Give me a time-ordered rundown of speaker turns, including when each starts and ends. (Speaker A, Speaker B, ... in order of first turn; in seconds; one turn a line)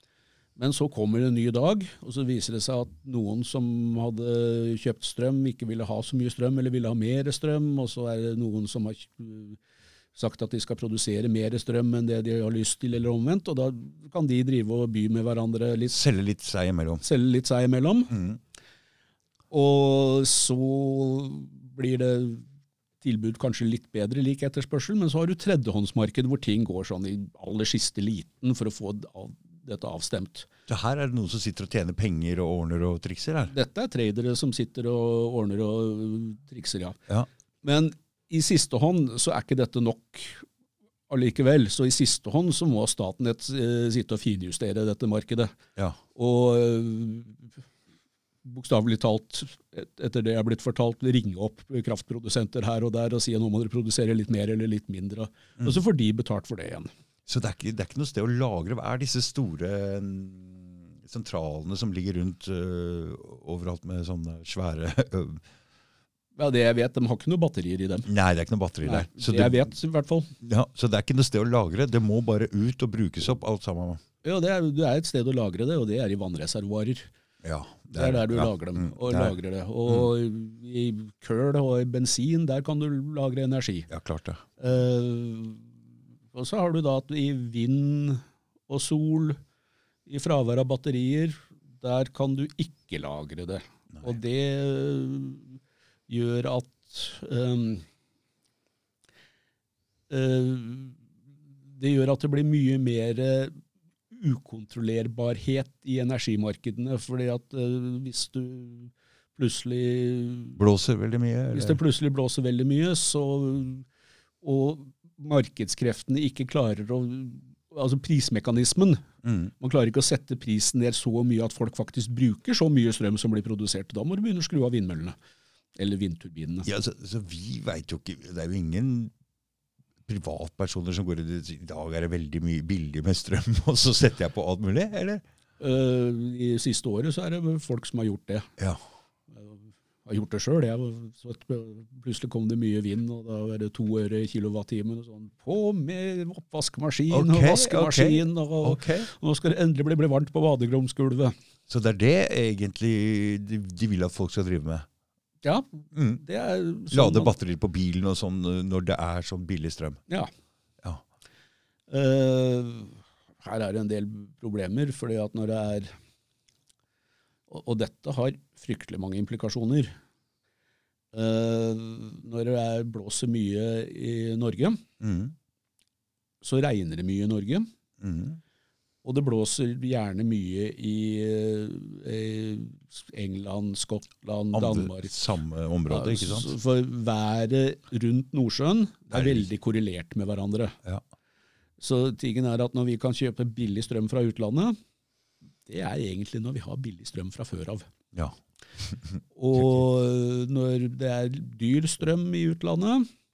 Speaker A: 0.6-9.6
Speaker A: 10.2-16.0
Speaker B: 15.9-17.0
Speaker A: 17.0-18.1
Speaker B: 18.1-18.4
Speaker A: 19.5-22.5
Speaker A: 23.0-30.5
Speaker B: 30.7-33.5
Speaker A: 33.5-37.0
Speaker A: 37.6-40.5
Speaker A: 41.1-45.6
Speaker A: 46.1-47.5
Speaker A: 48.5-56.9
Speaker B: 57.3-65.4
Speaker A: 66.4-68.1
Speaker B: 68.1-69.7
Speaker A: 68.8-70.3
Speaker B: 70.4-74.0
Speaker A: 74.2-77.1
Speaker B: 77.4-79.3
Speaker A: 77.9-83.9
Speaker B: 83.9-84.4
Speaker A: 84.6-85.7
Speaker A: 86.3-89.4
Speaker A: 90.1-97.8
Speaker A: 100.1-101.0
Speaker A: 101.7-103.6
Speaker A: 104.1-110.6
Speaker B: 110.6-111.8
Speaker A: 111.5-113.9
Speaker A: 114.4-119.1
Speaker B: 119.2-119.5
Speaker A: 119.6-125.2
Speaker A: 125.8-126.7
Speaker B: 126.7-129.1
Speaker B: 130.1-135.2
Speaker A: 135.6-138.5
Speaker A: 139.3-151.3
Speaker B: 147.1-149.1
Speaker B: 151.7-154.9
Speaker A: 155.4-157.3
Speaker B: 155.9-156.2
Speaker B: 156.9-160.0
Speaker A: 161.9-166.0
Speaker A: 167.5-169.9
Speaker A: 171.1-174.8
Speaker B: 175.0-175.3
Speaker A: 176.4-177.7
Speaker B: 178.0-178.4
Speaker A: 179.0-185.2
Speaker B: 184.5-186.6
Speaker A: 185.9-190.8
Speaker B: 189.1-189.5
Speaker A: 191.8-194.8
Speaker A: 195.7-197.9
Speaker B: 198.1-199.8
Speaker A: 199.4-203.1